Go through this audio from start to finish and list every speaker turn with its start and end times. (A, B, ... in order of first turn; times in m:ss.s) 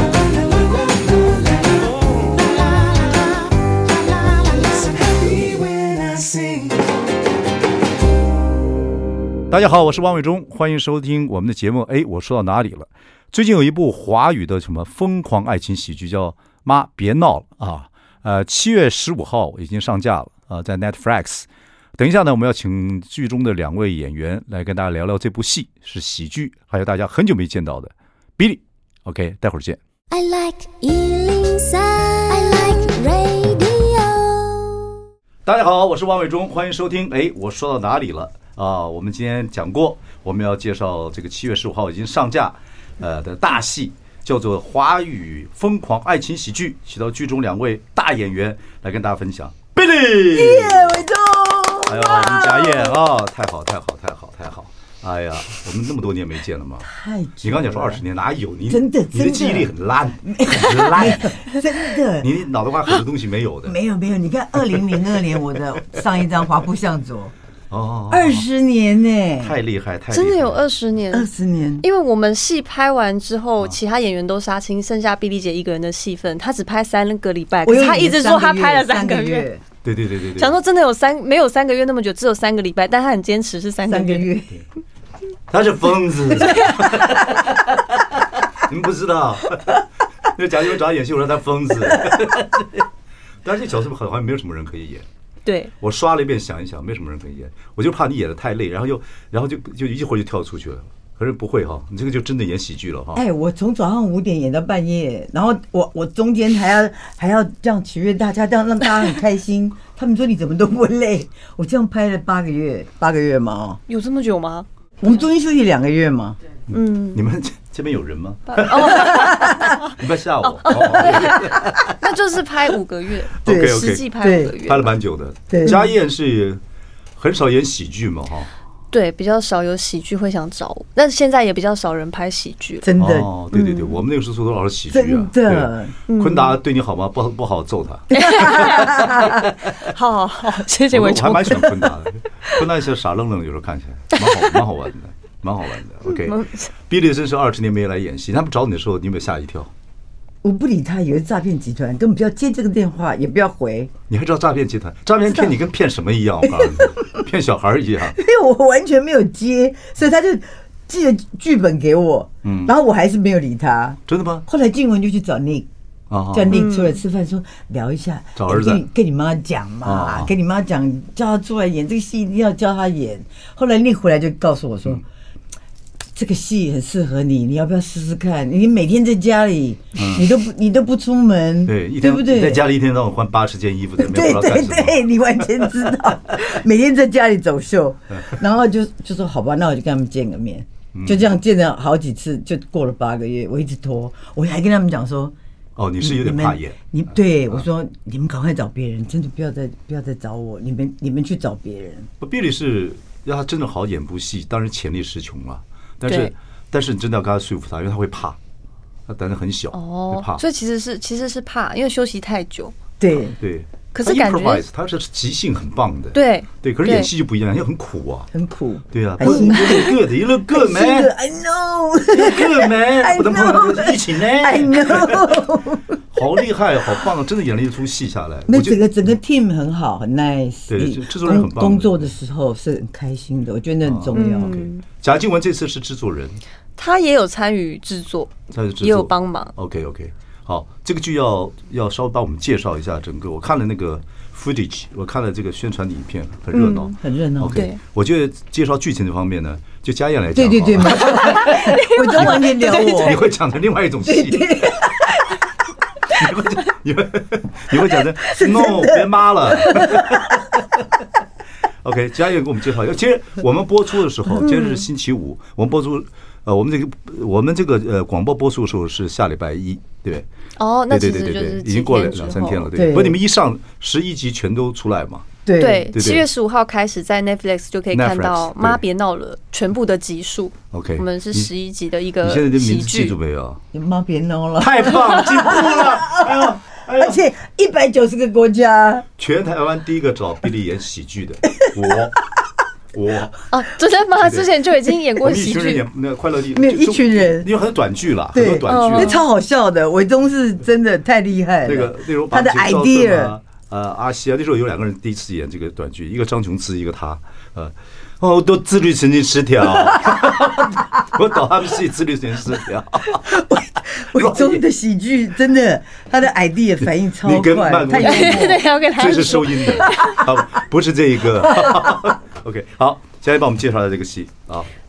0:09.5-0:21.4 A
0:22.0-0:29.8 A
0:30.1-0:35.0 B
0:35.4-0:51.0 A
0:50.3-0:53.0 C
0:51.8-0:56.9 A
0:56.8-0:58.0 C
0:57.4-1:01.5 A
0:58.7-0:59.7 C
1:00.2-1:02.3 C
1:02.2-1:03.8 A
1:03.6-1:07.3 C
1:07.7-1:08.5 A
1:08.1-1:09.6 C
1:09.4-1:10.6 A
1:10.1-1:11.3 D
1:11.1-1:11.8 C
1:11.8-1:19.4 D
1:17.6-1:19.6 C
1:19.8-1:20.5 A
1:20.4-1:24.3 D
1:23.9-1:24.6 C
1:25.5-1:32.8 A
1:26.4-1:27.0 D
1:33.4-1:35.0 A
1:35.4-1:35.7 D
1:35.8-1:43.2 A
1:43.1-1:53.8 C
1:53.9-1:54.7 D
1:55.0-1:56.4 C
1:56.7-2:01.9 A
1:56.7-1:57.2 D
1:58.5-1:59.9 D
1:58.9-1:59.8 C
2:00.4-2:04.9 D
2:03.4-2:06.6 A
2:03.4-2:04.5 C
2:05.5-2:05.9 C
2:07.2-2:08.5 A
2:08.9-2:12.9 D
2:12.8-2:13.3 C
2:13.0-2:19.7 A
2:13.5-2:14.0 D
2:14.9-2:16.0 C
2:16.1-2:16.6 D
2:18.1-2:21.9 D
2:18.1-2:19.2 C
2:20.9-2:29.7 A
2:24.2-2:24.6 D
2:26.0-2:26.7 D
2:30.4-2:33.9 C
2:34.1-2:38.2 A
2:36.5-2:37.2 C
2:38.1-2:45.7 C
2:42.4-2:42.7 A
2:44.1-2:44.4 A
2:46.1-2:46.6 A
2:46.3-2:55.0 C
2:46.5-2:47.0 D
2:48.4-2:48.8 A
2:49.8-2:50.3 A
2:56.1-3:02.6 C
2:59.9-3:00.3 A
3:01.6-3:05.0 A
3:04.0-3:15.3 C
3:10.9-3:11.2 A
3:15.8-3:16.8 A
3:16.0-3:22.1 C
3:22.2-3:28.4 A
3:26.0-3:26.3 D
3:29.1-3:30.4 A
3:29.7-3:32.7 D
3:33.0-3:33.4 C
3:33.4-3:38.3 A
3:33.9-3:34.6 D
3:36.1-3:37.1 D
3:38.3-3:46.4 C
3:38.9-3:41.1 A
3:39.2-3:39.8 D
3:42.1-3:45.4 A
3:46.1-3:48.8 A
3:48.5-3:54.6 C
3:50.7-3:52.1 A
3:53.8-3:56.4 A
3:54.1-3:54.8 D
3:56.8-3:59.5 D
3:58.5-4:15.1 A
4:06.5-4:07.0 D
4:07.0-4:07.6 C
4:07.5-4:07.8 D
4:10.3-4:13.2 C
4:11.0-4:13.2 D
4:14.0-4:15.2 C
4:16.1-4:20.5 A
4:18.3-4:20.3 C
4:21.8-4:30.3 A
4:24.4-4:24.9 D
4:30.6-4:32.7 D
4:30.9-4:35.3 A
4:32.7-4:33.2 C
4:35.4-4:35.9 C
4:35.6-4:43.1 D
4:35.9-4:36.2 A
4:37.9-4:38.8 A
4:40.7-4:41.5 A
4:42.2-4:43.6 A
4:43.7-4:49.0 C
4:44.6-4:47.2 A
4:49.2-4:52.2 A
4:51.6-4:52.0 C
4:52.9-4:53.4 A
4:53.5-4:55.8 D
4:54.2-4:54.5 A
4:55.2-4:59.2 A
4:56.5-4:57.5 C
4:58.3-5:03.3 C
4:58.7-4:59.2 D
5:01.6-5:13.4 A
5:09.8-5:10.8 C
5:13.1-5:18.6 C
5:14.1-5:14.6 A
5:17.2-5:24.7 A
5:18.0-5:20.2 D
5:21.4-5:22.0 C